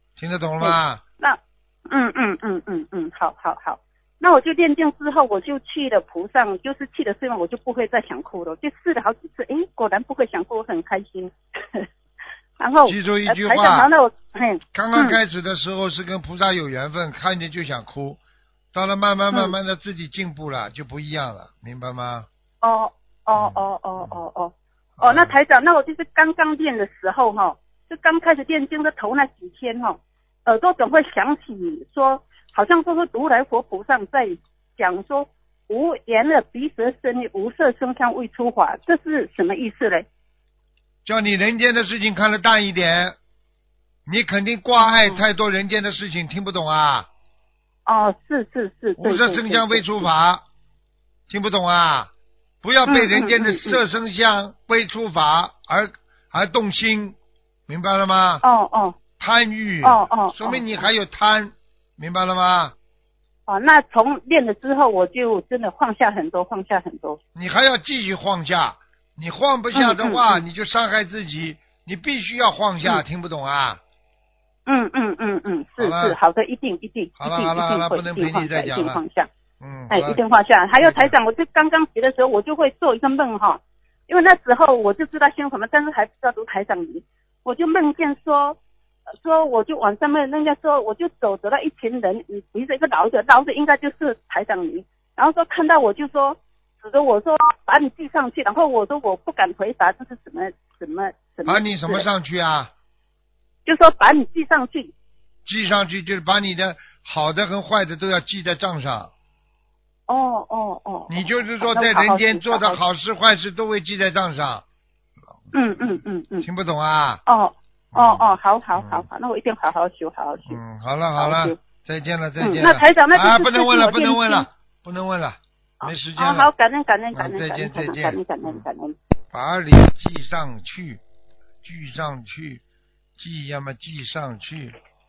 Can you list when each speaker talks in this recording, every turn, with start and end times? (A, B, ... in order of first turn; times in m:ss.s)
0:00.2-0:01.0 A
0:00.6-0:11.9 B
0:12.6-0:15.2 B
0:12.8-0:13.9 A
0:14.7-0:18.2 A
0:18.7-0:22.3 A
0:22.6-0:40.1 B
0:23.4-0:24.2 A
0:25.0-0:25.3 A
0:41.0-0:43.2 A
0:44.1-0:47.1 A
0:44.8-0:45.2 B
0:47.9-0:50.1 B
0:49.0-0:50.4 A
0:51.3-0:52.1 A
0:52.6-0:57.2 A
0:52.9-0:53.8 B
0:57.7-0:58.4 A
0:58.4-0:59.0 B
0:59.2-1:02.8 A
0:59.8-1:00.6 B
1:03.5-1:07.2 B
1:07.3-1:13.8 A
1:09.7-1:10.4 B
1:14.6-1:19.3 B
1:15.8-1:16.2 A
1:17.2-1:19.0 A
1:19.6-1:20.2 A
1:19.9-1:28.6 B
1:20.8-1:21.1 A
1:29.2-1:42.1 B
1:41.4-1:42.7 A
1:43.6-1:44.9 B
1:45.4-1:49.1 A
1:50.1-1:52.8 B
1:51.1-1:54.6 A
1:55.5-1:56.5 B
1:56.4-1:57.2 A
1:57.2-2:00.6 B
1:57.9-1:59.1 A
2:00.5-2:06.5 A
2:01.2-2:01.6 B
2:02.4-2:04.5 B
2:05.8-2:09.0 B
2:07.1-2:08.6 A
2:09.3-2:11.0 A
2:11.6-2:12.6 A
2:13.2-2:14.8 A